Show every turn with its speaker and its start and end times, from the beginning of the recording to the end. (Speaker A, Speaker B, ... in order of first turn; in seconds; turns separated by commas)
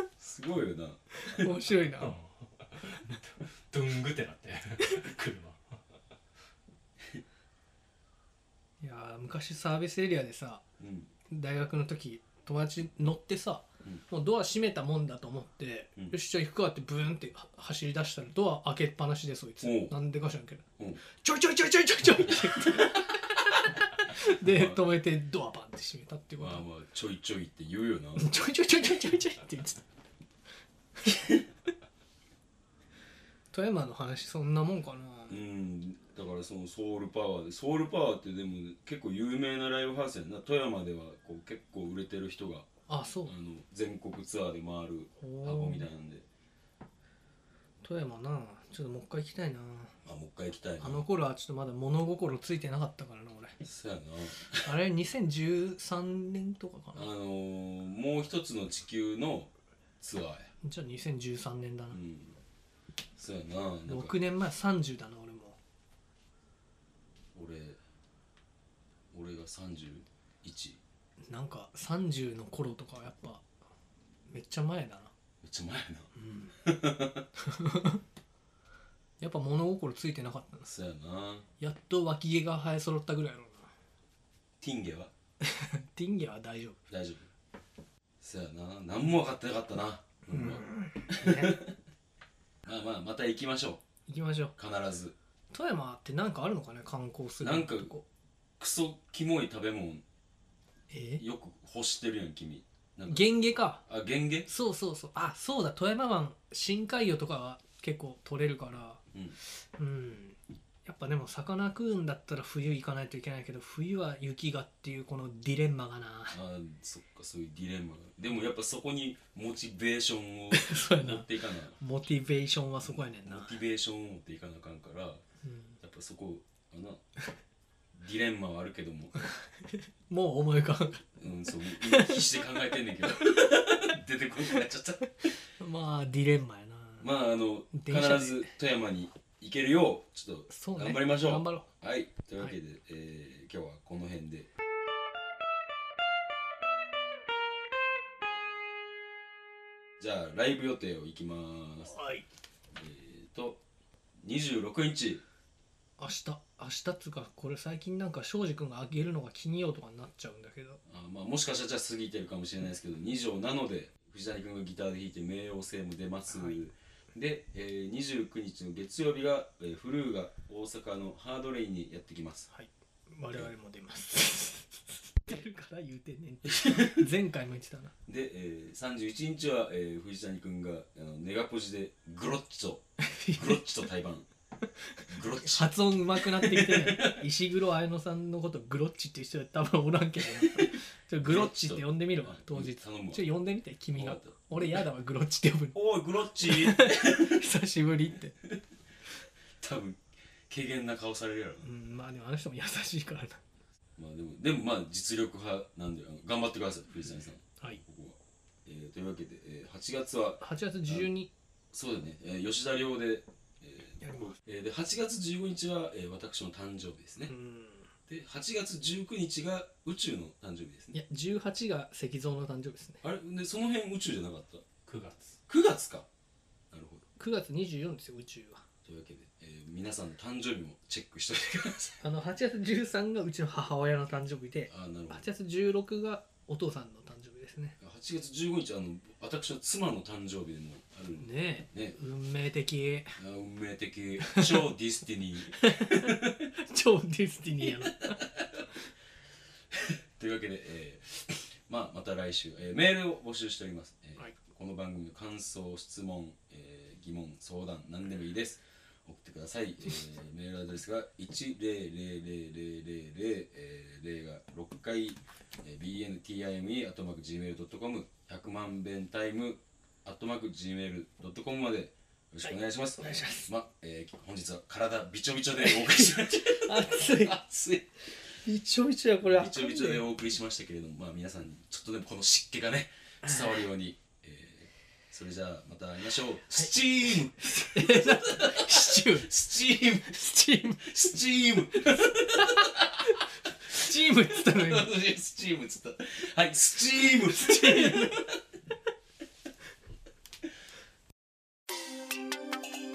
Speaker A: 0.2-1.5, Speaker B: 1.1-2.1, Speaker C: 1.9-5.8, Speaker B: 8.8-10.6, Speaker A: 10.8-11.1, Speaker B: 11.3-26.6, Speaker A: 19.6-19.9, Speaker A: 22.5-22.8, Speaker A: 24.3-24.8, Speaker A: 26.4-28.3, Speaker B: 28.1-29.8, Speaker B: 33.5-35.4, Speaker A: 35.3-42.7, Speaker B: 42.9-43.3, Speaker A: 43.2-46.2, Speaker B: 45.2-45.9, Speaker B: 47.8-50.0, Speaker A: 50.0-51.0, Speaker B: 50.8-53.6, Speaker A: 53.6-54.7, Speaker B: 54.6-57.1, Speaker A: 56.9-60.5, Speaker B: 60.6-62.0, Speaker A: 61.9-62.4, Speaker A: 63.1-64.2, Speaker B: 63.9-65.6, Speaker A: 67.3-67.8, Speaker A: 69.1-70.8, Speaker B: 71.3-73.4, Speaker B: 74.3-75.1, Speaker A: 75.4-76.1, Speaker B: 76.1-76.6, Speaker A: 76.6-77.3, Speaker B: 77.4-78.0, Speaker B: 79.2-80.7, Speaker A: 80.7-81.5, Speaker B: 81.6-83.7, Speaker A: 84.6-85.1, Speaker B: 85.4-86.8, Speaker A: 86.9-87.3, Speaker A: 88.2-91.7, Speaker B: 90.3-91.6, Speaker A: 92.6-93.8, Speaker B: 94.1-94.5, Speaker A: 94.6-95.1, Speaker B: 95.5-98.0, Speaker A: 97.4-97.9, Speaker A: 98.6-100.0, Speaker B: 100.9-101.2, Speaker A: 101.2-103.3, Speaker B: 103.1-103.8, Speaker A: 103.9-104.5, Speaker B: 104.5-109.0, Speaker B: 109.5-116.4, Speaker A: 116.3-121.8, Speaker B: 120.5-123.6, Speaker A: 122.8-125.2, Speaker B: 125.4-125.8, Speaker A: 125.8-127.0, Speaker A: 127.9-129.2, Speaker B: 129.2-131.1, Speaker A: 131.2-135.3, Speaker B: 131.8-132.3, Speaker B: 135.6-137.1, Speaker A: 137.0-144.5, Speaker B: 137.7-138.5, Speaker B: 140.5-141.7, Speaker A: 150.0-151.9, Speaker B: 151.9-152.2, Speaker A: 152.7-153.6, Speaker A: 154.2-155.2, Speaker B: 156.0-160.8, Speaker A: 160.8-172.5, Speaker B: 166.3-166.6, Speaker B: 172.5-177.9, Speaker A: 176.5-177.0, Speaker A: 178.1-184.3, Speaker B: 183.0-183.6, Speaker B: 185.0-195.8, Speaker A: 185.1-187.2, Speaker A: 190.3-193.3, Speaker A: 193.9-194.8, Speaker A: 195.7-197.4, Speaker B: 196.4-198.3, Speaker A: 199.6-201.7, Speaker B: 201.6-203.4, Speaker A: 204.0-211.1, Speaker B: 210.4-211.3, Speaker A: 211.7-217.3, Speaker B: 214.0-214.3, Speaker B: 217.2-217.9, Speaker A: 218.1-220.9, Speaker B: 220.9-223.0, Speaker A: 223.0-224.6, Speaker C: 224.8-225.4, Speaker A: 225.5-226.1, Speaker A: 226.7-227.0, Speaker B: 227.2-228.6, Speaker A: 228.8-232.0, Speaker B: 232.0-237.8, Speaker A: 234.7-235.2, Speaker A: 237.8-242.0, Speaker B: 241.2-243.2, Speaker A: 243.2-246.5, Speaker B: 244.2-244.6, Speaker B: 245.6-248.2, Speaker A: 248.1-248.6, Speaker A: 249.7-277.9, Speaker B: 272.5-273.5, Speaker B: 275.6-277.4, Speaker B: 278.4-280.0, Speaker A: 279.2-290.2, Speaker B: 287.4-289.3, Speaker B: 290.1-290.9, Speaker A: 290.8-293.1, Speaker B: 291.7-294.9, Speaker A: 293.7-298.4, Speaker B: 297.2-298.2